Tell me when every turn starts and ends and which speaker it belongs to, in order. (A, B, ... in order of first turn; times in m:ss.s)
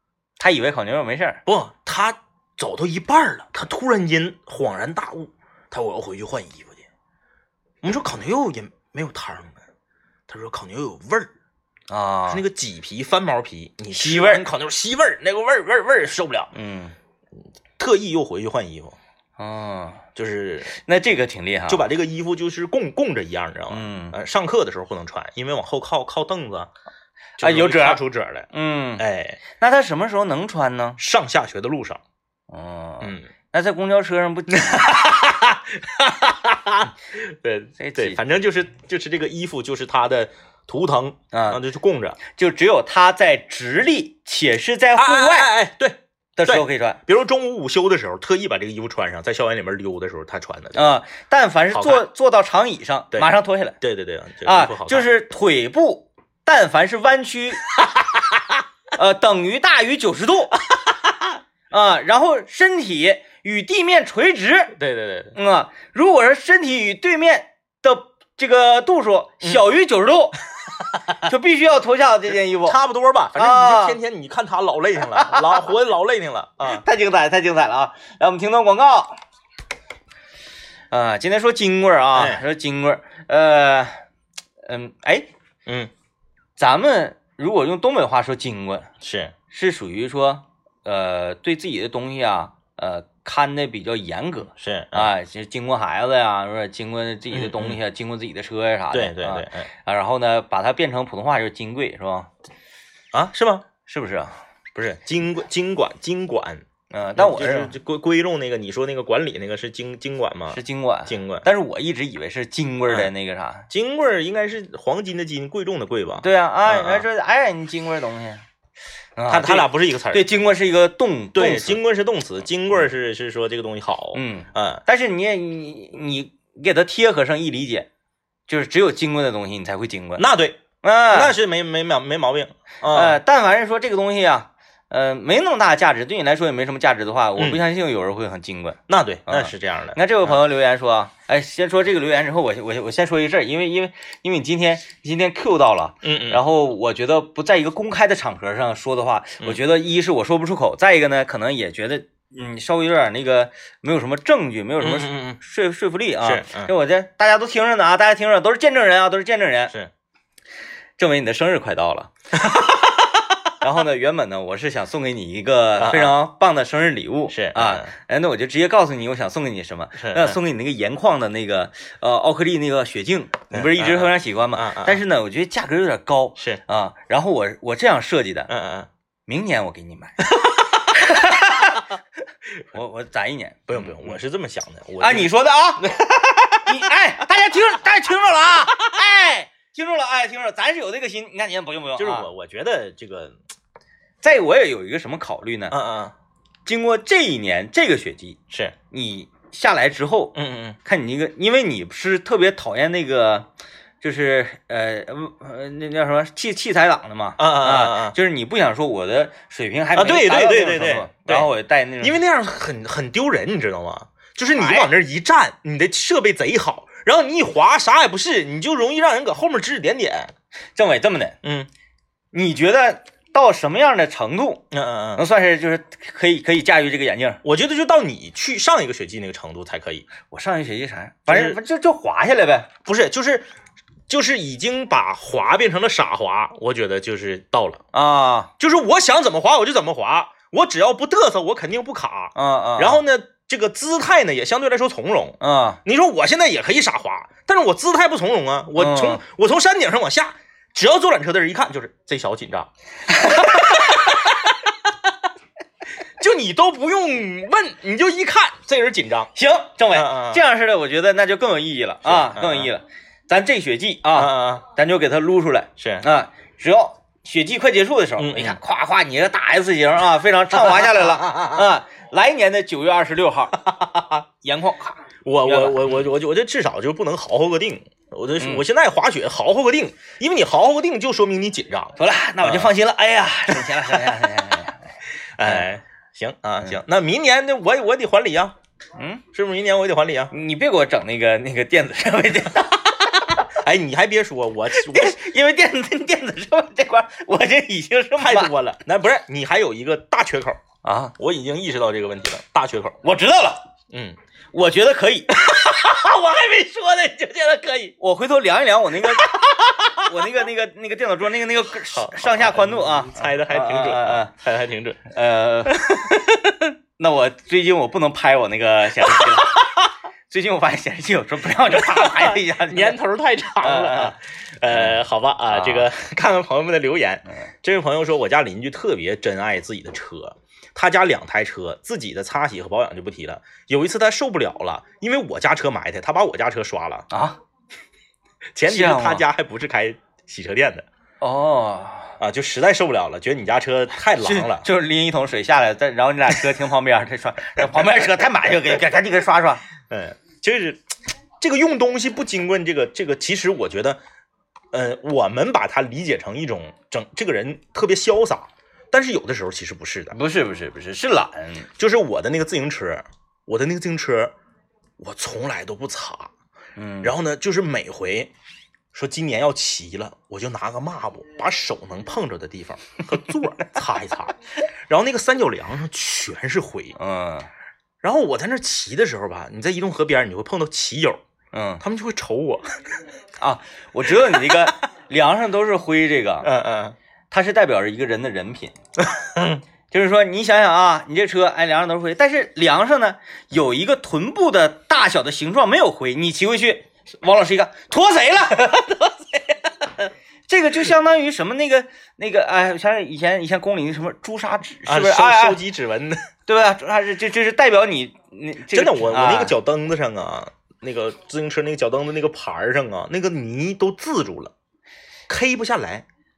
0:00.4-0:01.4 A
0:01.5-0:06.9 B
0:07.8-0:09.6 B
0:10.3-0:11.3 B
0:11.9-0:12.4 A
0:12.3-0:16.5 B
0:14.0-0:14.5 A
0:16.5-0:17.0 A
0:17.8-0:19.0 B
0:19.4-0:20.0 A
0:20.2-0:20.7 B
0:20.7-0:21.8 A
0:21.7-0:26.7 B
0:23.7-0:24.2 A
0:27.4-0:29.0 A
0:27.4-0:29.4 B
0:29.6-0:31.0 A
0:31.0-0:32.0 B
0:32.5-0:35.2 A
0:33.0-0:33.3 B
0:34.6-0:42.2 B
0:37.8-0:38.2 A
0:41.3-0:41.6 A
0:42.3-0:45.5 A
0:45.0-0:50.9 B
0:46.4-0:47.0 A
0:50.8-0:53.8 A
0:51.7-0:52.1 B
0:53.1-0:55.1 B
0:54.4-0:57.7 A
0:58.0-0:58.3 B
0:58.9-1:00.6 A
1:00.6-1:01.4 B
1:01.7-1:04.8 A
1:04.8-1:05.4 B
1:05.4-1:10.4 A
1:10.8-1:11.2 B
1:11.2-1:12.8 A
1:12.6-1:16.8 B
1:13.4-1:14.0 A
1:15.1-1:15.6 A
1:16.6-1:19.2 A
1:20.9-1:24.0 A
1:22.2-1:22.4 B
1:24.7-1:25.3 A
1:25.7-1:25.9 B
1:26.6-1:28.9 A
1:29.0-1:29.3 B
1:29.5-1:42.3 A
1:34.6-1:35.1 B
1:37.3-1:37.8 B
1:38.9-1:39.7 B
1:43.1-1:43.6 B
1:43.9-1:44.4 A
1:44.8-1:46.6 B
1:46.9-1:47.8 A
1:47.2-1:51.5 B
1:50.5-1:53.7 A
1:53.7-1:57.0 B
1:56.2-1:58.4 A
1:59.2-2:01.8 A
1:59.3-2:00.2 B
2:01.4-2:04.8 B
2:04.1-2:07.9 A
2:08.5-2:10.2 A
2:10.2-2:13.2 B
2:10.8-2:11.3 A
2:12.9-2:39.7 A
2:18.9-2:20.4 B
2:26.0-2:26.4 B
2:34.8-2:35.4 B
2:36.2-2:36.7 B
2:41.0-2:42.1 A
2:42.4-2:42.9 B
2:43.6-2:58.5 A
2:45.8-2:46.2 B
2:47.3-2:47.9 B
2:50.0-2:50.4 B
2:53.5-2:55.0 B
2:58.5-2:58.9 B
2:59.3-3:00.2 A
3:00.3-3:00.9 B
3:00.9-3:01.9 A
3:02.7-3:04.2 A
3:03.7-3:06.8 B
3:05.0-3:05.9 A
3:06.6-3:12.3 A
3:12.0-3:13.4 B
3:14.2-3:15.8 A
3:15.7-3:16.1 B
3:16.7-3:23.5 A
3:20.4-3:20.8 B
3:24.0-3:32.2 A
3:27.4-3:28.2 B
3:30.0-3:31.5 B
3:32.0-3:40.3 B
3:34.5-3:34.9 A
3:40.8-3:41.4 A
3:41.4-3:41.7 B
3:42.3-3:44.6 A
3:44.7-3:45.2 B
3:45.2-3:47.4 A
3:47.4-3:50.1 B
3:50.2-3:52.7 A
3:51.3-3:51.6 B
3:52.8-3:53.5 B
3:54.1-3:57.8 B
3:57.9-3:58.5 A
3:58.6-4:12.7 B
4:02.4-4:03.0 A
4:05.4-4:05.8 A
4:08.8-4:09.2 A
4:13.1-4:14.1 A
4:13.2-4:14.5 B
4:16.2-4:19.3 B
4:19.4-4:33.9 A
4:19.9-4:20.4 B
4:22.0-4:22.7 B
4:24.1-4:24.6 B
4:25.8-4:26.0 B
4:28.2-4:28.6 B
4:30.6-4:31.6 B
4:34.4-4:36.1 A
4:35.2-4:42.7 B
4:42.0-4:45.7 A
4:43.5-4:44.2 B
4:45.4-4:48.6 B
4:49.0-4:49.2 A
4:49.3-4:50.3 B
4:50.3-4:53.5 A
4:53.5-4:55.2 B
4:54.7-4:58.6 A
4:58.2-5:00.6 B
5:00.8-5:01.1 A
5:01.2-5:03.0 B
5:03.0-5:03.7 A
5:03.9-5:04.2 B
5:04.5-5:05.4 A
5:05.3-5:07.9 B
5:08.0-5:14.3 A
5:09.0-5:10.3 B
5:11.8-5:15.1 B
5:15.1-5:16.1 A
5:15.7-5:16.7 B
5:17.0-5:19.6 A
5:19.0-5:19.7 B
5:20.3-5:23.0 A
5:21.7-5:37.1 B
5:23.6-5:24.2 A
5:24.7-5:25.0 A
5:25.5-5:25.9 A
5:37.1-5:37.4 A
5:38.6-5:40.9 B
5:38.7-5:39.2 A
5:41.2-5:42.1 A
5:42.2-5:44.7 B
5:44.2-5:49.6 A
5:49.8-5:50.8 B
5:51.4-5:54.0 B
5:54.7-6:00.2 B
6:00.1-6:01.7 A
6:01.8-6:04.3 B
6:05.0-6:06.3 B
6:06.8-6:07.1 A
6:07.0-6:08.3 B
6:08.9-6:14.3 B
6:14.9-6:17.0 B
6:17.0-6:17.5 A
6:18.0-6:21.2 B
6:21.5-6:21.8 A
6:21.8-6:22.6 B
6:23.4-6:26.5 A
6:26.4-6:27.0 B
6:27.3-6:28.8 A
6:29.0-6:29.6 B
6:29.9-6:39.0 A
6:40.5-6:45.6 A
6:44.9-6:46.2 B
6:46.5-6:49.6 A
6:48.7-6:54.5 B
6:55.3-6:56.1 B